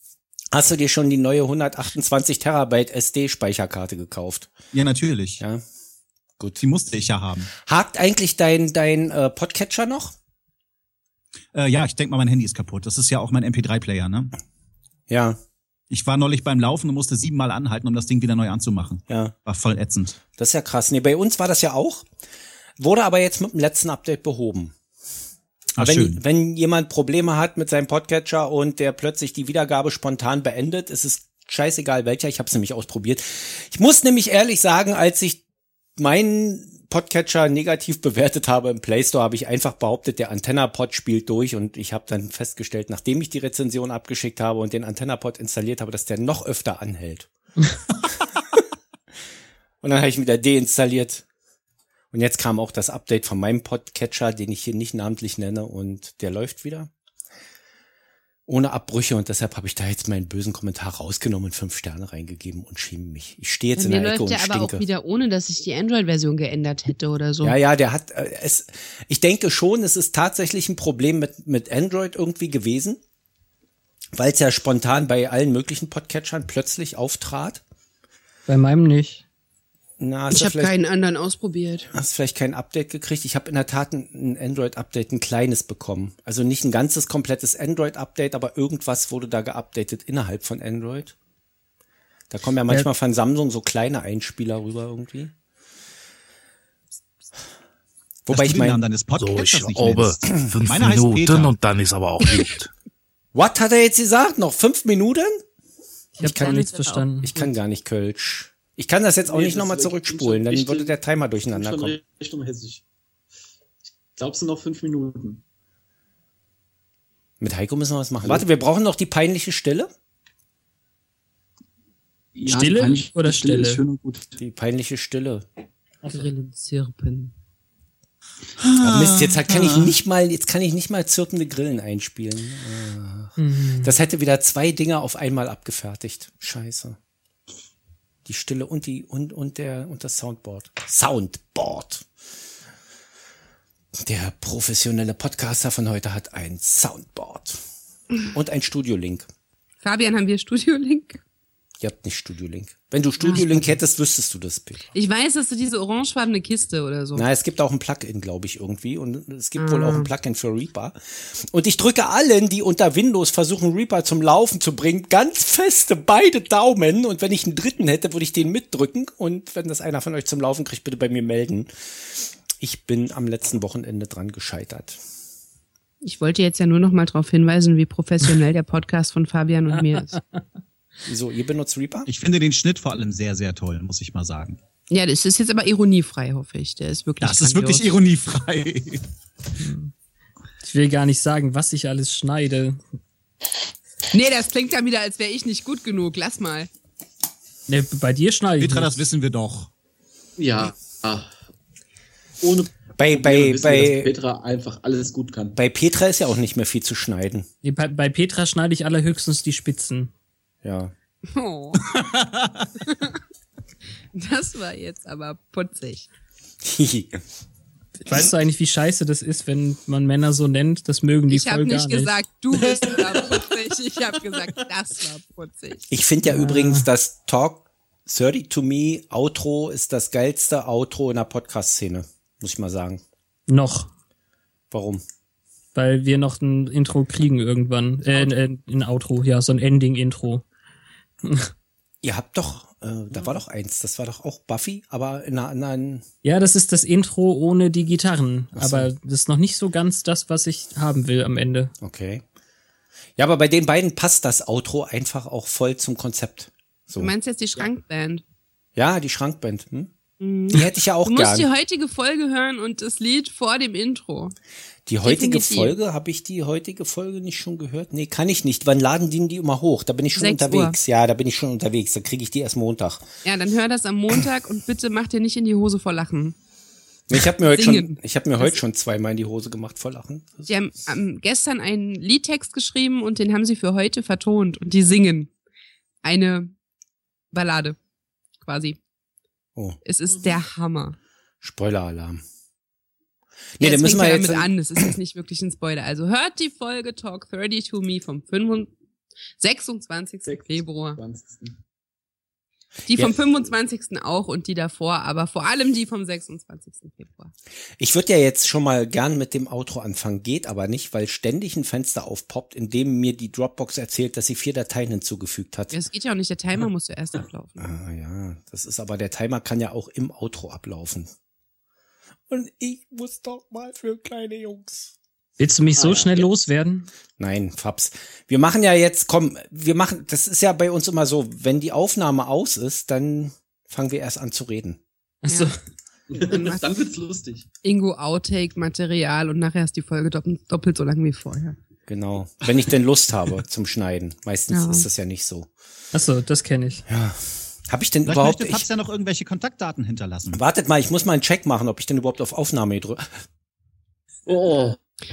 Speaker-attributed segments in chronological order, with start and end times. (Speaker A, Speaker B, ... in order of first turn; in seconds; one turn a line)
Speaker A: 0.5-4.5
Speaker B: 4.7-5.4
Speaker B: 6.6-7.5
Speaker A: 7.6-10.1
Speaker B: 11.5-14.3
Speaker A: 15.1-15.4
Speaker B: 15.9-20.2
Speaker A: 19.1-19.3
Speaker A: 20.4-22.1
Speaker A: 22.8-24.7
Speaker B: 25.8-26.2
Speaker A: 25.8-35.4
Speaker A: 36.0-47.3
Speaker A: 49.8-51.2
Speaker A: 52.1-56.9
Speaker A: 58.5-64.8
Speaker C: 63.8-67.5
Speaker A: 67.4-73.0
Speaker A: 74.1-77.6
Speaker D: 78.5-79.2
Speaker A: 80.0-80.7
Speaker C: 80.3-81.9
Speaker A: 81.9-91.1
Speaker A: 92.3-95.3
Speaker A: 98.2-98.8
Speaker B: 98.3-101.5
Speaker E: 99.1-102.7
Speaker A: 100.2-100.5
Speaker A: 103.3-105.4
Speaker D: 106.2-107.5
Speaker A: 106.2-112.0
Speaker C: 106.3-107.0
Speaker F: 109.3-111.0
Speaker F: 111.5-112.8
Speaker F: 114.1-115.4
Speaker A: 117.4-119.9
Speaker F: 122.3-124.4
Speaker D: 122.5-123.8
Speaker A: 124.4-125.5
Speaker C: 126.1-127.3
Speaker B: 128.6-129.9
Speaker A: 128.8-137.0
Speaker D: 133.4-133.9
Speaker A: 138.2-142.0
Speaker A: 144.0-147.6
Speaker A: 148.3-149.3
Speaker C: 149.8-151.2
Speaker A: 151.8-154.9
Speaker C: 153.2-153.6
Speaker C: 154.9-157.2
Speaker A: 157.1-171.7
Speaker C: 159.6-160.1
Speaker A: 172.6-175.0
Speaker C: 176.0-180.2
Speaker A: 181.0-182.1
Speaker B: 182.1-184.6
Speaker C: 184.9-187.9
Speaker B: 187.2-189.0
Speaker D: 189.6-189.9
Speaker D: 190.6-192.8
Speaker C: 194.1-196.7
Speaker D: 197.7-199.0
Speaker B: 198.6-199.7
Speaker F: 200.4-201.3
Speaker F: 202.4-205.6
Speaker A: 203.0-204.1
Speaker A: 205.6-207.5
Speaker D: 207.6-210.1
Speaker A: 210.6-210.9
Speaker C: 211.3-211.8
Speaker B: 211.8-212.7
Speaker C: 212.8-213.2
Speaker C: 214.1-216.1
Speaker A: 216.6-217.2
Speaker D: 218.1-222.1
Speaker C: 221.3-225.8
Speaker A: 225.9-233.0
Speaker D: 226.3-226.9
Speaker D: 233.5-233.9
Speaker A: 234.7-235.0
Speaker D: 235.7-240.4
Speaker D: 241.2-241.5
Speaker A: 242.0-246.0
Speaker D: 246.2-251.7
Speaker A: 248.6-248.9
Speaker A: 251.8-252.2
Speaker A: 253.2-257.1
Speaker C: 257.0-258.2
Speaker A: 258.8-259.9
Speaker C: 260.2-264.3
Speaker A: 260.5-261.5
Speaker A: 264.9-273.0
Speaker C: 265.0-265.8
Speaker C: 270.1-270.8
Speaker C: 273.2-276.3
Speaker A: 277.1-280.5
Speaker C: 277.4-278.6
Speaker C: 280.5-285.3
Speaker C: 286.0-286.5
Speaker C: 287.3-287.8
Speaker C: 288.4-288.8
Speaker C: 289.8-290.9
Speaker A: 291.4-292.2
Speaker A: 293.6-294.9
Speaker C: 293.6-298.7
Speaker C: 299.4-301.0
Speaker F: 300.9-301.6
Speaker C: 302.9-307.3
Speaker A: 307.8-315.7
Speaker C: 315.7-317.6
Speaker A: 317.6-321.1
Speaker A: 322.3-324.9
Speaker D: 325.4-326.9
Speaker A: 327.2-334.8
Speaker D: 335.2-335.6
Speaker C: 335.3-335.5
Speaker F: 336.1-337.4
Speaker C: 336.2-336.6
Speaker C: 337.6-341.6
Speaker A: 341.9-345.5
Speaker C: 344.5-344.9
Speaker D: 345.9-346.8
Speaker A: 346.9-348.6
Speaker B: 348.1-350.4
Speaker A: 350.3-353.1
Speaker F: 354.3-354.8